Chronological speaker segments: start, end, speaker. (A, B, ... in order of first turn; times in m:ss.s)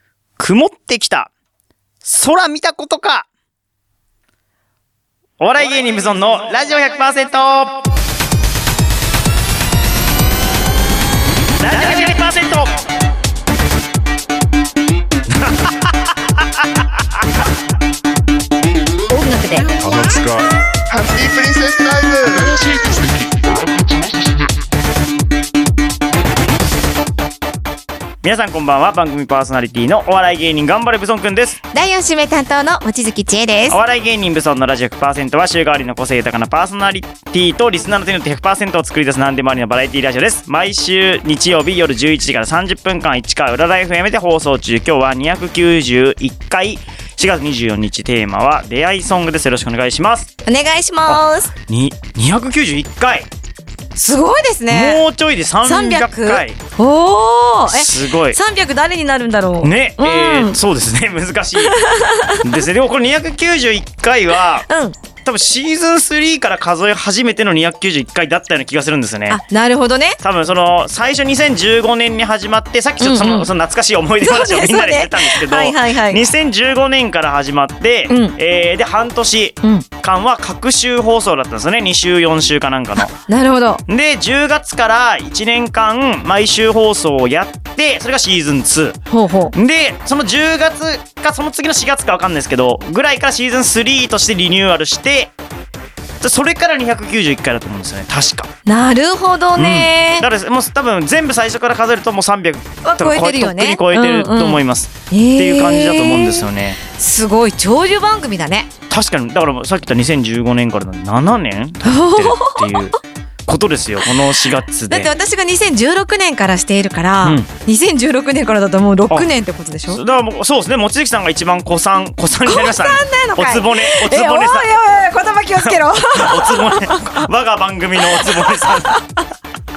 0:00.4-0:01.3 A
0:02.0-0:03.2 A
0:05.4-0:07.8 A
0:11.6-0:12.7 A
0:19.1-0:19.8 B
0:19.7-0:23.3 C
0:28.2-0:31.6 A
0:31.7-0:33.8 B
0:33.7-0:50.3 A
0:50.4-0:51.5 B
0:51.0-0:53.3 A
0:53.9-0:55.0 B
0:54.7-0:56.6 A
0:55.6-1:00.6 B
0:57.7-0:58.4 A
0:59.6-1:01.8 A
1:01.6-1:02.6 B
1:02.4-1:04.7 A
1:04.7-1:05.0 B
1:05.2-1:09.4 A
1:09.3-1:10.2 B
1:10.2-1:23.2 A
1:13.0-1:13.5 B
1:14.2-1:16.2 B
1:18.1-1:18.3 B
1:23.2-1:23.8 B
1:23.9-1:29.0 A
1:29.1-1:29.5 B
1:29.5-1:35.3 A
1:36.2-1:38.5 A
1:38.6-1:40.3 B
1:39.6-1:46.8 A
1:42.8-1:48.7 B
1:48.9-1:55.1 A
1:51.8-1:52.9 B
1:54.9-2:00.0 B
1:57.2-1:57.5 A
1:59.9-2:04.8 A
2:02.4-2:07.3 B
2:05.7-2:09.0 A
2:08.1-2:09.2 B